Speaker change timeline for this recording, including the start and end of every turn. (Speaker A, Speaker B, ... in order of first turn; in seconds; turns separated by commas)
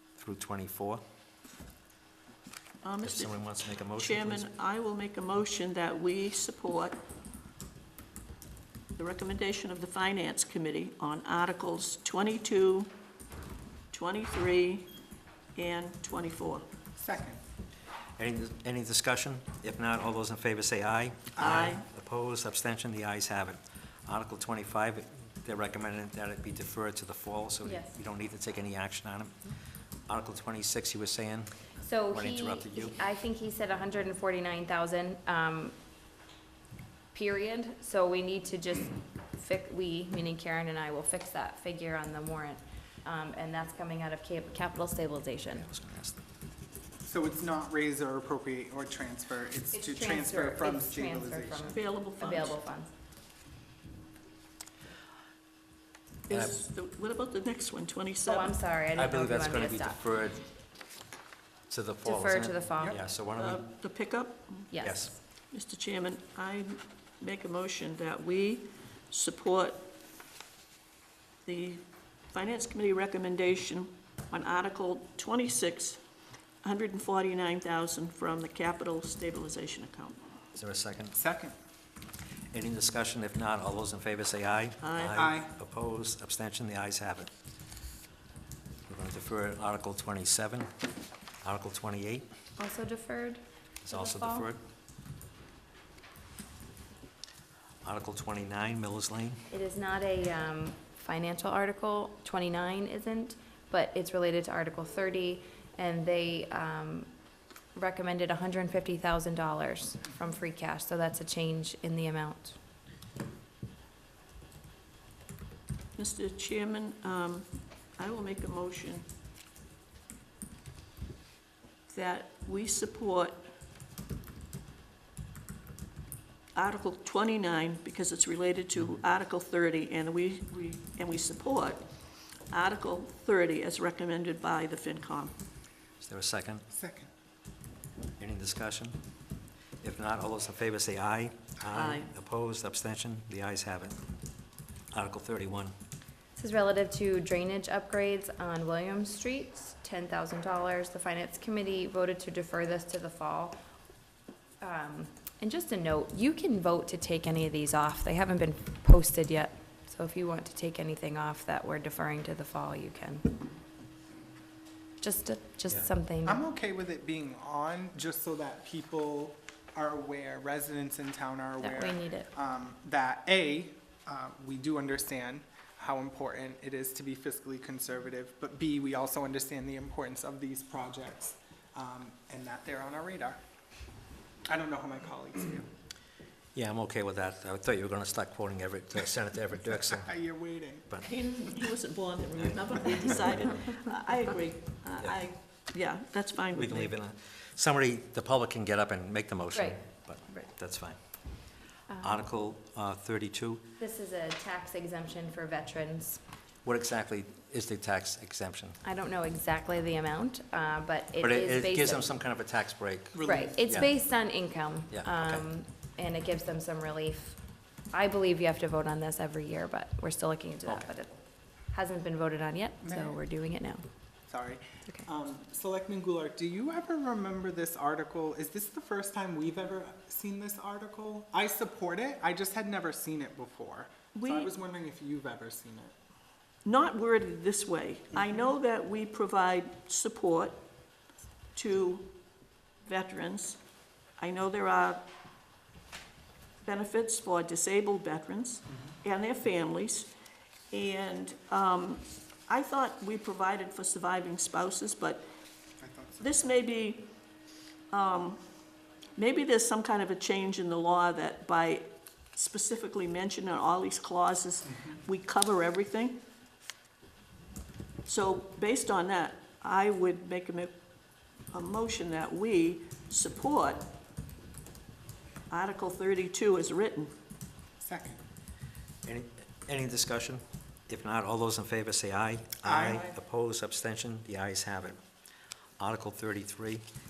Speaker A: 0.2-1.0, Speaker B: 2.8-7.0, Speaker A: 3.0-4.5, Speaker B: 9.0-12.9, Speaker B: 13.9-14.9, Speaker B: 15.5-16.6, Speaker C: 17.0-17.4, Speaker A: 18.2-29.4, Speaker C: 21.4-21.7, Speaker B: 21.4-21.8, Speaker D: 27.6-27.9, Speaker A: 30.1-31.6, Speaker D: 31.8-35.7, Speaker A: 32.1-33.0, Speaker D: 37.1-45.7, Speaker A: 45.5-46.2, Speaker C: 47.0-51.8, Speaker D: 49.7-52.9, Speaker B: 51.7-52.6, Speaker B: 56.3-58.6, Speaker A: 56.3-56.5, Speaker D: 58.2-60.0, Speaker A: 59.0-60.5, Speaker A: 61.7-63.7, Speaker D: 62.0-63.0, Speaker B: 63.4-64.9, Speaker D: 64.7-65.1, Speaker A: 64.8-65.1, Speaker B: 65.5-69.9, Speaker B: 71.4-76.0, Speaker B: 76.6-80.2, Speaker A: 80.5-81.2, Speaker C: 81.1-81.5, Speaker A: 82.5-87.3, Speaker B: 84.8-85.3, Speaker C: 85.1-85.5, Speaker A: 88.9-90.7, Speaker A: 91.4-92.2, Speaker D: 92.6-94.5, Speaker A: 93.8-94.6, Speaker A: 97.8-99.5, Speaker D: 99.5-107.1, Speaker D: 107.8-112.6, Speaker B: 116.0-119.0, Speaker B: 121.9-123.5, Speaker B: 126.5-131.9, Speaker B: 132.5-135.4, Speaker A: 136.0-136.7, Speaker C: 136.7-137.1, Speaker A: 138.2-139.0, Speaker A: 139.8-144.0, Speaker B: 141.7-142.1, Speaker A: 144.9-145.8, Speaker D: 146.4-153.6, Speaker D: 154.6-163.3, Speaker D: 165.0-166.4, Speaker C: 166.2-183.4, Speaker D: 171.6-172.3, Speaker C: 184.5-185.7, Speaker A: 186.6-190.1, Speaker C: 189.8-190.9, Speaker B: 191.0-196.9, Speaker A: 192.4-193.6, Speaker A: 196.5-201.0, Speaker D: 199.5-200.5, Speaker D: 201.9-202.2, Speaker A: 202.0-203.6, Speaker D: 203.8-206.2, Speaker A: 206.6-208.8, Speaker D: 208.8-212.1, Speaker A: 211.2-213.9, Speaker C: 213.2-213.6, Speaker D: 213.2-217.4, Speaker A: 214.9-215.5, Speaker D: 217.9-221.2, Speaker D: 221.7-223.8, Speaker C: 222.8-223.2, Speaker C: 224.3-235.9, Speaker B: 234.2-234.5, Speaker B: 236.7-240.7, Speaker B: 241.6-242.1, Speaker B: 242.8-243.6, Speaker B: 244.2-245.1, Speaker B: 246.6-250.1, Speaker B: 250.7-255.2, Speaker C: 255.8-256.4, Speaker B: 256.2-257.0, Speaker B: 257.9-258.4, Speaker B: 259.1-266.2, Speaker B: 268.1-270.7, Speaker B: 271.5-273.9, Speaker B: 275.5-277.1, Speaker C: 277.8-278.2, Speaker A: 279.0-285.0, Speaker C: 282.6-283.2, Speaker A: 285.8-286.8